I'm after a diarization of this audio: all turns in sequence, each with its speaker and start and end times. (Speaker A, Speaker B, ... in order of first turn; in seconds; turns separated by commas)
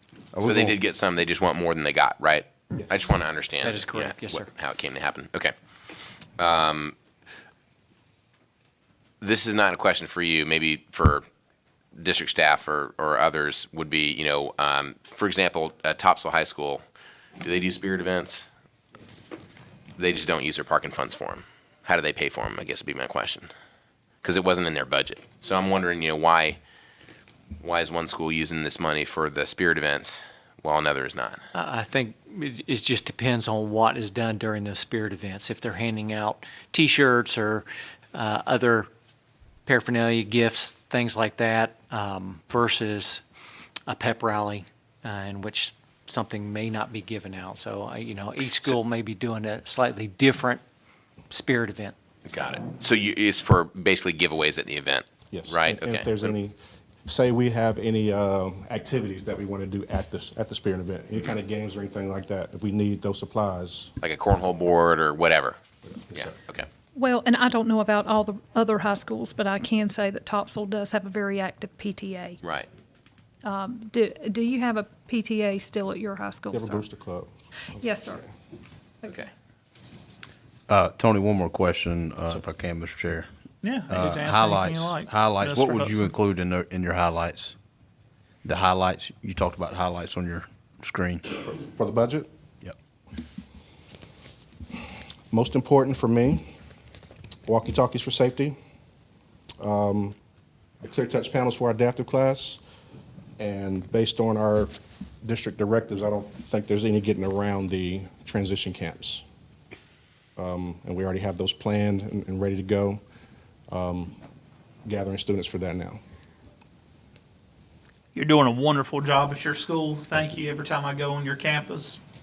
Speaker A: 0.3-0.8, Speaker B: 0.4-5.5, Speaker C: 3.6-4.5, Speaker B: 6.4-7.0, Speaker B: 9.2-11.3, Speaker B: 12.0-16.8, Speaker B: 17.4-18.5, Speaker B: 20.0-23.5, Speaker B: 24.2-26.6, Speaker B: 27.6-31.5, Speaker C: 31.5-38.9, Speaker C: 39.7-43.2, Speaker C: 43.9-50.6, Speaker C: 51.3-52.0, Speaker B: 52.3-56.3, Speaker D: 55.3-63.9, Speaker B: 64.0-65.6, Speaker D: 66.0-66.3, Speaker B: 66.2-66.7, Speaker E: 67.0-72.4, Speaker B: 72.4-72.7, Speaker E: 73.4-76.8, Speaker D: 76.5-78.3, Speaker E: 77.8-78.2, Speaker A: 80.7-83.3, Speaker F: 83.6-86.1, Speaker A: 83.9-87.5, Speaker A: 88.4-91.2, Speaker D: 91.3-92.3, Speaker D: 95.3-96.4, Speaker D: 97.5-98.6, Speaker D: 99.6-100.2, Speaker D: 100.8-102.6, Speaker D: 103.4-109.2, Speaker D: 110.4-113.0, Speaker D: 113.7-114.2, Speaker D: 114.9-116.0, Speaker F: 118.2-122.0